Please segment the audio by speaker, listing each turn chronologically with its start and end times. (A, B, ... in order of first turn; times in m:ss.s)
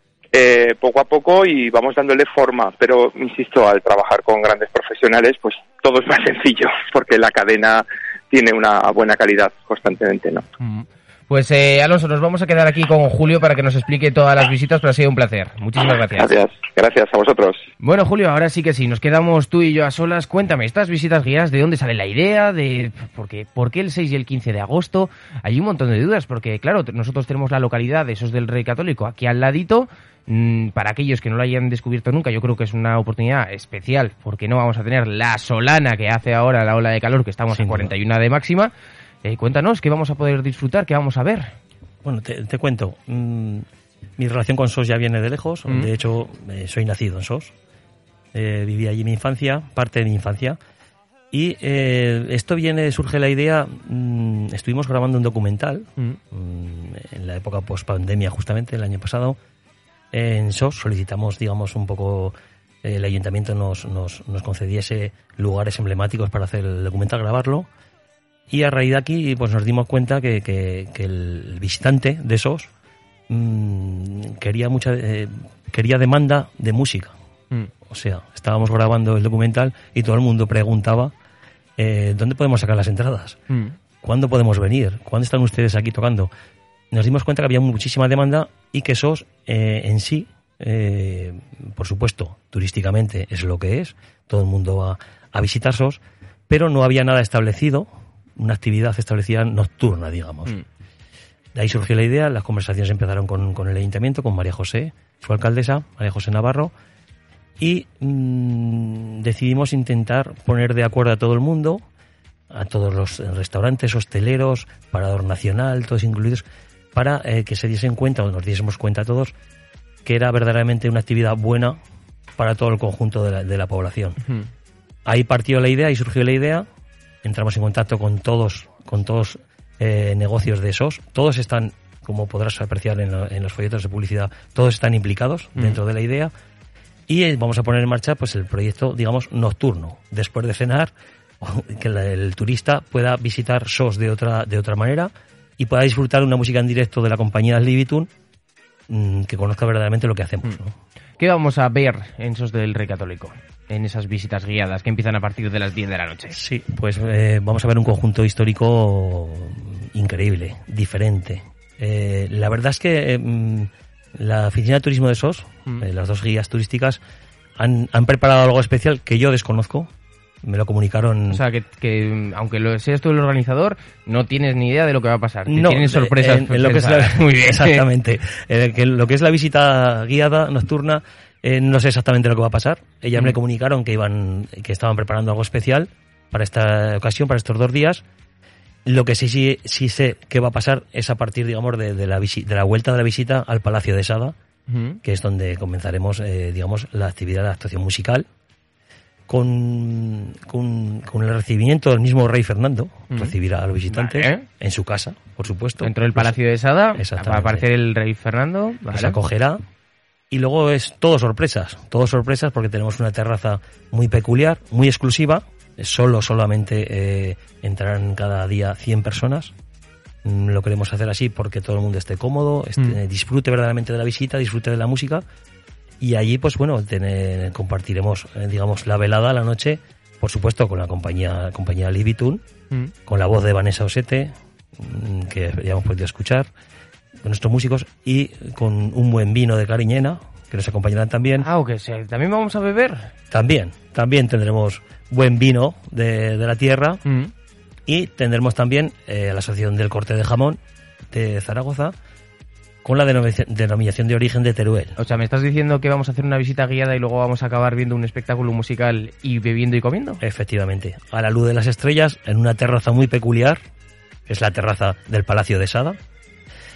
0:00.3-0:10.4 A
0:10.6-0:16.3 B
0:16.2-0:17.6 A
0:17.8-0:38.7 B
0:37.5-0:37.9 C
0:39.2-0:41.5 B
0:42.0-0:43.6 C
0:44.2-0:47.5 C
0:48.3-0:50.6 C
0:51.3-0:59.4 C
1:00.1-1:07.7 C
1:08.5-1:12.7 C
1:13.3-1:17.1 C
1:17.9-1:21.1 C
1:21.8-1:23.4 C
1:24.0-1:26.3 C
1:26.9-1:40.6 C
1:41.5-1:46.7 C
1:47.6-1:51.8 C
1:52.5-1:59.3 C
2:00.0-2:01.8 C
2:02.4-2:04.2 C
2:05.0-2:06.6 C
2:07.2-2:16.3 C
2:17.1-2:28.1 C
2:28.9-2:30.7 C
2:31.2-2:36.4 B
2:36.3-2:47.0 C
2:47.6-2:49.9 C
2:50.4-2:51.4 C
2:51.3-2:57.8 B
2:55.5-3:08.0 C
3:08.8-3:14.3 C
3:14.7-3:15.0 B
3:15.0-3:18.2 C
3:19.3-3:26.3 C
3:23.9-3:24.4 B
3:25.8-3:29.2 B
3:27.0-3:27.6 C
3:28.9-3:29.6 C
3:30.3-3:39.5 C
3:40.2-3:45.2 C
3:46.0-3:52.4 C
3:53.1-3:56.5 C
3:57.2-4:01.5 C
4:01.4-4:03.1 B
4:03.3-4:07.0 C
4:07.0-4:07.3 B
4:07.9-4:10.6 C
4:11.1-4:11.9 C
4:12.8-4:15.0 C
4:15.0-4:20.2 B
4:20.2-4:23.6 C
4:24.3-4:26.0 C